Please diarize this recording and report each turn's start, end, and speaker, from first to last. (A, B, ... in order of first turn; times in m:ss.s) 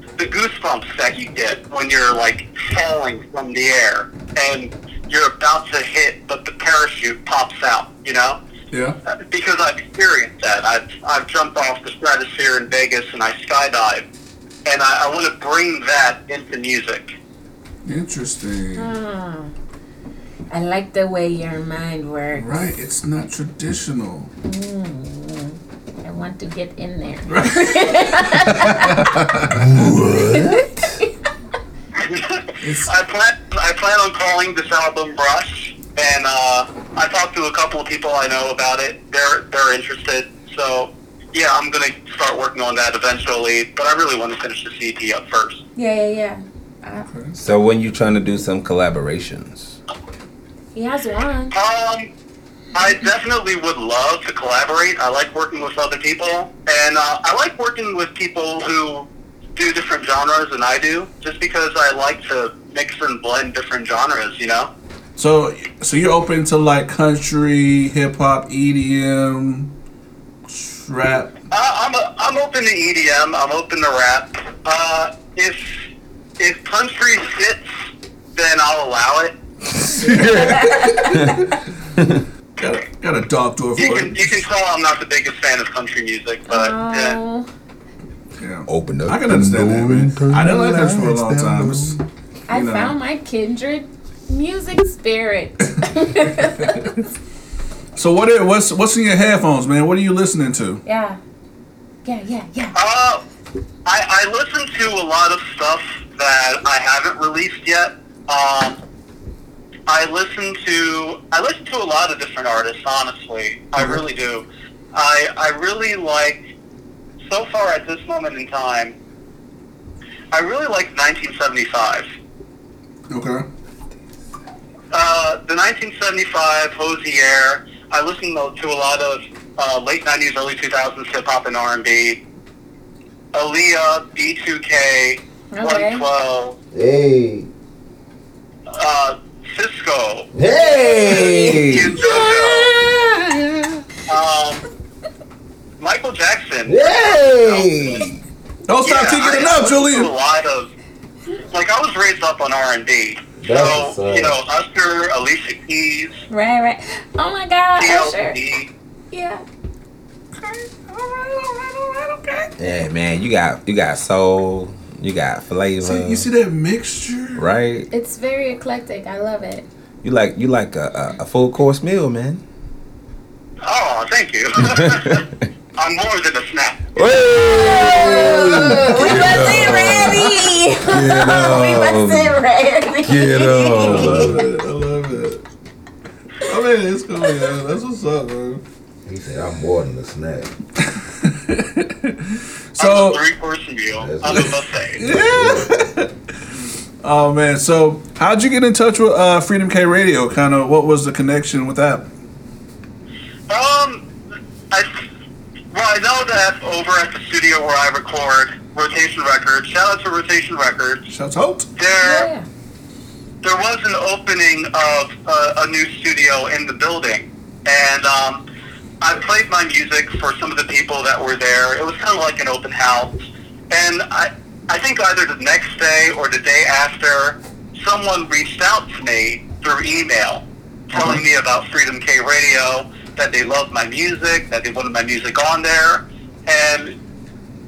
0:00.2-0:08.4 A
0:08.7-0:09.0 B
0:09.1-0:14.0 A
0:14.6-0:17.1 A
0:17.8-0:18.9 B
0:18.8-0:19.5 C
0:20.5-0:22.7 C
0:22.3-0:24.3 B
0:24.4-0:29.1 C
0:27.3-0:29.6 B
0:29.6-0:30.8 D
0:30.3-0:30.8 C
0:32.0-0:45.6 A
0:32.6-0:32.9 B
0:45.8-0:47.0 C
0:47.0-0:47.3 B
0:47.4-0:49.8 D
0:50.7-0:51.5 C
0:51.5-0:52.1 A
0:52.7-1:04.7 A
1:05.2-1:09.7 B
1:10.5-1:11.3 B
1:11.5-1:15.9 A
1:16.4-1:17.7 A
1:18.3-1:19.3 A
1:19.9-1:21.3 D
1:20.0-1:21.3 C
1:20.2-1:21.4 B
1:22.6-1:24.4 B
1:23.8-1:27.2 A
1:26.5-1:27.5 C
1:28.4-1:32.0 B
1:28.7-1:32.0 D
1:32.5-1:36.9 C
1:32.5-1:32.9 B
1:38.0-1:40.8 B
1:40.8-1:41.2 C
1:42.0-1:42.8 C
1:42.8-1:43.2 A
1:43.8-1:48.8 A
1:49.9-1:56.4 A
1:53.8-1:54.0 B
1:57.2-1:58.9 A
2:00.3-2:02.1 A
2:03.1-2:03.4 B
2:04.9-2:12.2 A
2:13.3-2:16.5 A
2:15.5-2:16.0 C
2:16.7-2:17.5 D
2:18.7-2:20.3 A
2:20.3-2:22.9 D
2:20.5-2:23.2 C
2:21.2-2:22.7 A
2:24.1-2:24.6 A
2:25.8-2:28.0 A
2:26.6-2:28.2 D
2:28.7-2:30.1 B
2:28.8-2:30.7 A
2:31.5-2:36.2 A
2:33.4-2:34.4 D
2:36.3-2:38.4 C
2:37.8-2:38.7 A
2:39.1-2:39.4 C
2:40.3-2:40.8 B
2:41.3-2:42.4 C
2:42.6-2:46.2 D
2:45.8-2:47.5 B
2:47.4-2:47.9 D
2:47.9-2:49.7 C
2:50.0-2:52.4 D
2:53.6-2:55.2 A
2:54.7-2:55.2 D
2:55.8-2:56.8 A
2:57.0-3:02.4 D
2:57.4-3:04.3 C
2:59.1-2:59.6 B
3:03.0-3:04.4 D
3:03.8-3:05.4 B
3:06.4-3:08.6 B
3:09.0-3:10.5 D
3:10.8-3:13.2 B
3:12.8-3:15.0 A
3:14.0-3:15.7 D
3:14.2-3:16.1 B
3:17.0-3:22.1 B
3:23.5-3:24.1 A
3:24.7-3:25.0 A
3:25.7-3:31.1 A
3:31.1-3:31.7 B
3:31.8-3:32.3 A
3:32.0-3:32.5 C
3:33.4-3:38.4 A
3:39.0-3:43.1 A
3:43.7-3:57.0 A
3:50.9-3:51.2 B